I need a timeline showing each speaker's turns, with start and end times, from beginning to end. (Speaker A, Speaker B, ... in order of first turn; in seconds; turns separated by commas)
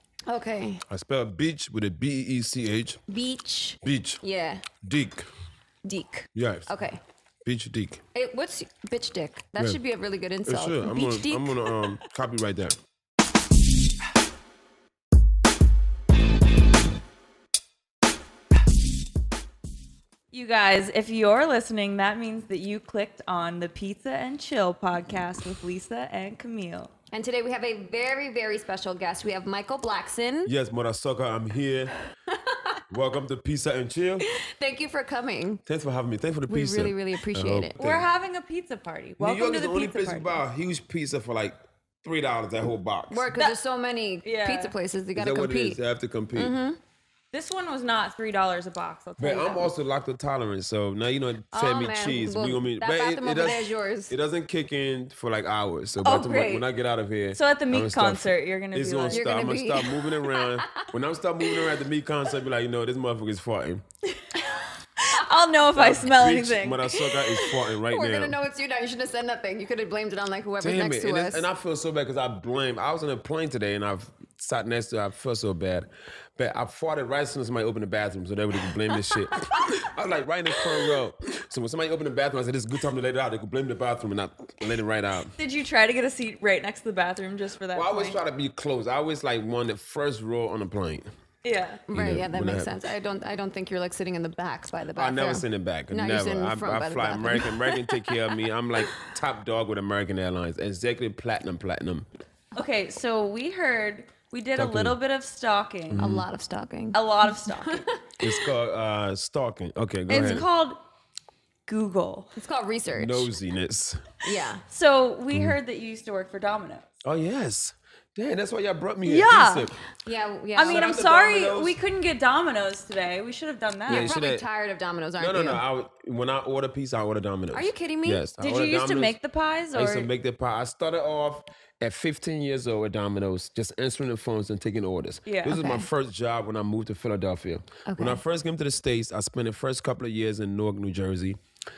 Speaker A: 0.3-0.8, Speaker B: 0.9-3.0, Speaker A: 3.1-4.7, Speaker B: 3.8-4.2, Speaker B: 4.8-5.3, Speaker A: 5.8-7.0, Speaker B: 6.3-6.7, Speaker B: 7.5-8.0, Speaker A: 8.1-11.8, Speaker B: 10.4-12.8, Speaker C: 20.3-26.9, Speaker A: 27.1-30.5, Speaker B: 30.5-31.9, Speaker A: 32.3-32.8, Speaker B: 32.9-34.2, Speaker A: 34.3-35.6, Speaker B: 35.7-38.0, Speaker A: 36.5-37.8, Speaker C: 37.8-40.4, Speaker B: 39.2-43.3, Speaker A: 43.1-45.8, Speaker C: 43.3-43.6, Speaker C: 44.2-44.7, Speaker B: 45.2-46.5, Speaker A: 46.3-46.8, Speaker C: 47.3-49.7, Speaker B: 49.2-63.8, Speaker A: 51.5-54.1, Speaker C: 56.0-56.7, Speaker C: 57.3-59.2, Speaker A: 59.1-61.7, Speaker C: 64.1-67.1, Speaker B: 65.7-68.4, Speaker A: 67.3-71.5, Speaker B: 70.6-85.3, Speaker C: 85.4-88.2, Speaker B: 87.7-91.1, Speaker C: 91.4-91.8, Speaker A: 91.9-98.5, Speaker B: 91.9-92.7, Speaker B: 94.9-102.0, Speaker C: 102.5-106.0, Speaker B: 104.5-105.0, Speaker B: 105.9-106.2, Speaker A: 106.0-108.5, Speaker C: 106.9-107.8, Speaker B: 108.2-110.5, Speaker C: 110.1-110.8, Speaker C: 111.7-112.3, Speaker A: 112.4-113.3, Speaker B: 112.9-114.1, Speaker A: 114.2-114.6, Speaker C: 114.7-117.0, Speaker B: 117.0-119.8, Speaker C: 119.0-119.7, Speaker A: 120.0-120.9, Speaker C: 120.5-124.1, Speaker B: 120.6-121.8, Speaker B: 123.9-124.4, Speaker A: 123.9-125.6, Speaker B: 125.2-129.2, Speaker A: 127.5-128.2, Speaker C: 128.4-130.1, Speaker B: 129.7-141.4, Speaker C: 135.2-135.6, Speaker A: 135.5-135.9, Speaker A: 137.8-138.2